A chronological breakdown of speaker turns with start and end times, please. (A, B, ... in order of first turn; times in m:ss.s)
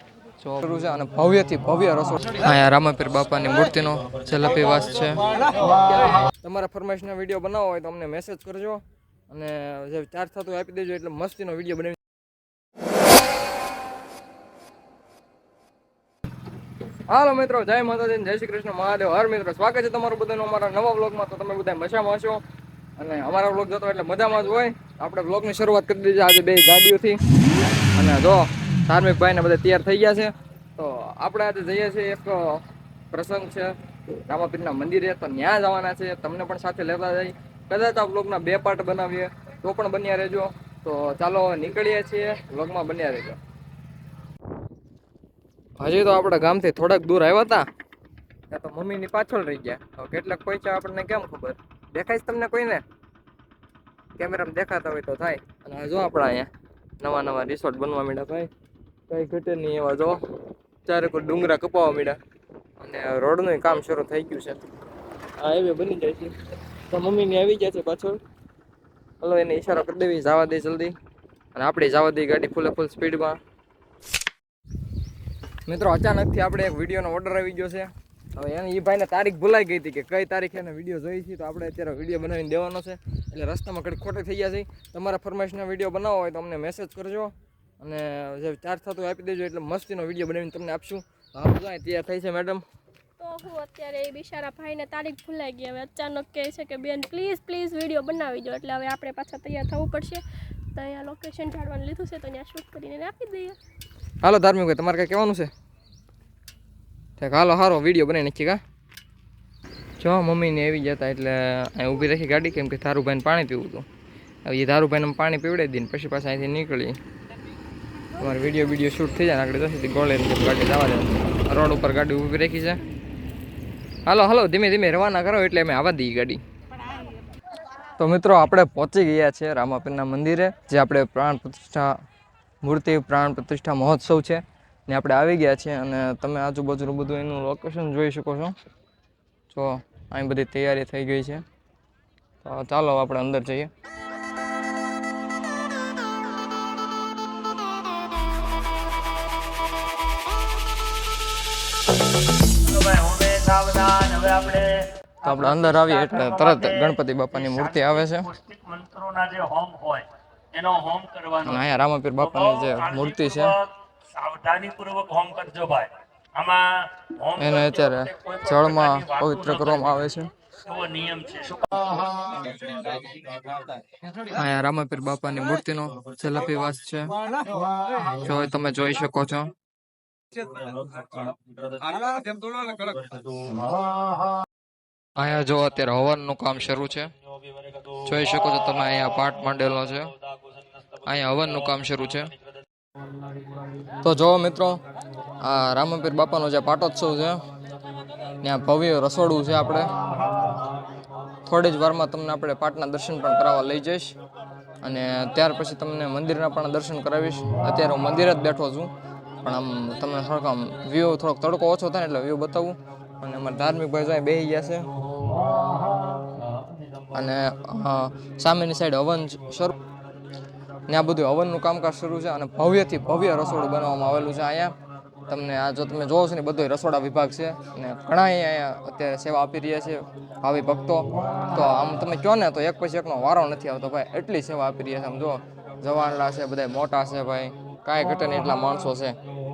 0:00.4-0:12.0 A
0:17.1-0:22.4 A
0:23.0-0:27.2 A
0:27.9-0:33.7 A
0:34.2-0:43.4 A
0:45.8-0:47.6 A
0:48.5-0:52.8 A
0:54.2-0:58.5 A
0:59.1-1:00.2 A
1:00.8-1:02.2 A
1:02.8-1:04.6 A
1:05.4-1:06.3 A
1:06.9-1:08.2 A
1:09.2-1:10.9 A
1:11.5-1:13.4 A
1:15.6-1:32.6 A
1:33.2-1:43.6 B
1:44.2-1:45.5 A
1:47.2-1:48.6 A
1:50.0-1:53.8 A
1:54.4-1:57.0 A
1:58.1-2:02.8 A
2:04.0-2:06.4 A
2:08.0-2:11.9 A
2:12.6-2:18.5 A
2:19.5-2:21.4 A
2:22.4-2:23.7 A
2:32.6-2:34.9 C
2:35.2-2:38.3 A
2:38.3-2:41.5 C
2:41.4-2:43.6 A
2:44.1-2:47.7 C
2:47.4-2:50.3 A
2:48.5-2:49.3 C
2:50.6-2:51.9 C
2:54.1-2:57.2 A
2:58.0-2:59.5 A
3:00.6-3:01.3 A
3:01.9-3:03.0 A
3:05.2-3:07.1 A
3:07.9-3:10.1 A
3:11.0-3:12.3 A
3:14.0-3:14.8 A
3:15.4-3:17.4 A
3:18.4-3:19.9 A
3:21.4-3:24.2 A
3:24.8-3:28.9 A
3:29.4-3:34.9 A
3:37.1-3:39.8 A
3:40.9-3:44.7 A
3:45.3-3:59.2 A